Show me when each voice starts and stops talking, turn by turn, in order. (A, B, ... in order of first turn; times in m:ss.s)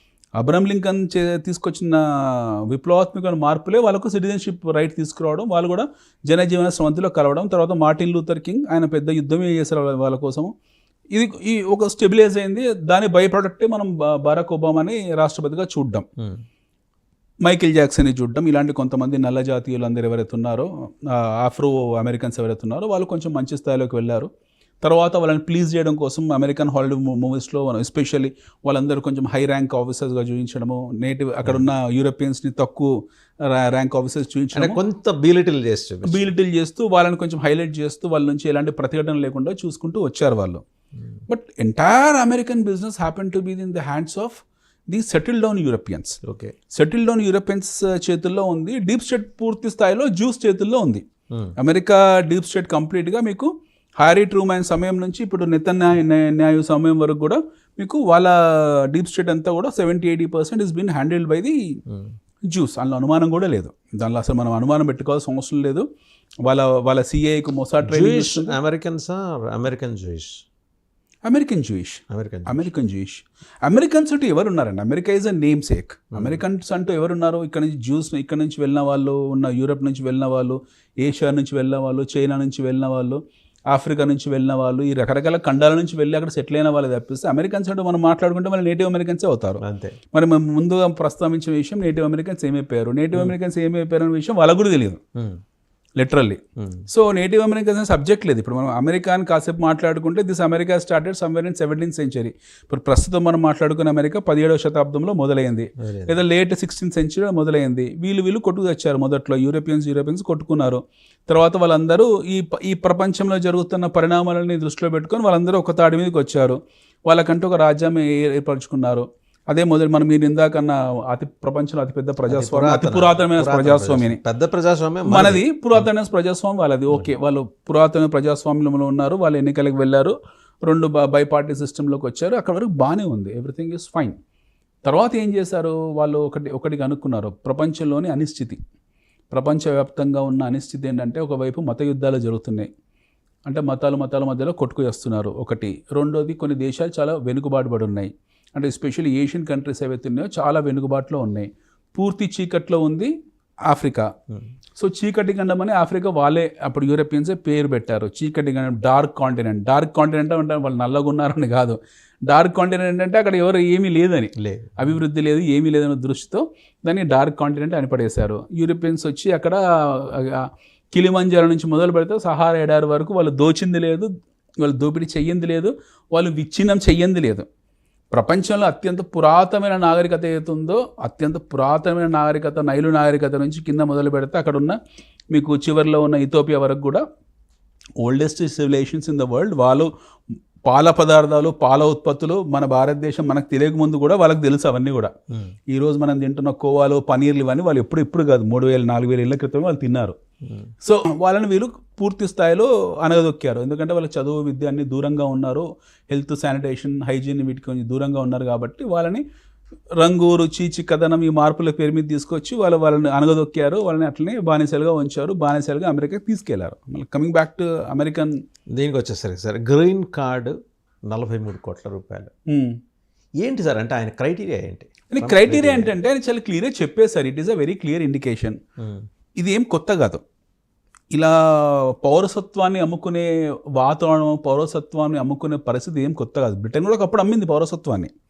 0:00.4-0:10.5 A
0:11.1-0:16.1 A
0:16.2-0:16.4 B
0:17.5-0:24.3 A
0:24.8-0:32.9 A
0:33.4-0:34.8 A
0:34.6-0:36.2 B
0:36.0-0:40.6 A
0:41.3-0:46.2 A
0:46.2-0:46.5 B
0:46.7-0:51.0 A
0:51.6-1:01.6 A
1:01.9-1:02.1 B
1:02.5-1:05.9 A
1:06.4-1:08.5 A
1:07.9-1:10.4 B
1:11.2-1:23.2 A
1:12.1-1:12.7 B
1:16.1-1:16.4 B
1:23.7-1:29.6 A
1:29.6-1:30.0 B
1:30.1-1:35.0 A
1:35.2-1:35.4 B
1:36.0-2:04.2 A
1:36.6-1:36.9 B
1:45.8-1:46.2 B
2:02.3-2:05.9 B
2:05.1-2:14.2 A
2:14.9-2:18.6 A
2:19.3-2:22.7 A
2:23.5-2:33.1 A
2:33.7-2:34.1 A
2:34.8-2:57.5 A
2:44.4-2:44.9 B
2:58.1-3:04.8 A
3:05.3-3:07.0 A
3:08.0-3:09.9 A
3:10.7-3:15.1 A
3:15.3-3:15.6 B
3:15.7-3:20.2 A
3:20.4-3:20.7 B
3:20.8-3:29.2 A
3:30.0-3:38.4 A
3:38.7-3:40.6 B
3:41.1-3:42.3 B
3:42.5-3:42.8 A
3:43.4-3:45.9 B
3:45.1-3:48.6 A
3:48.8-3:49.1 B
3:49.4-3:50.2 A
3:51.1-3:58.1 A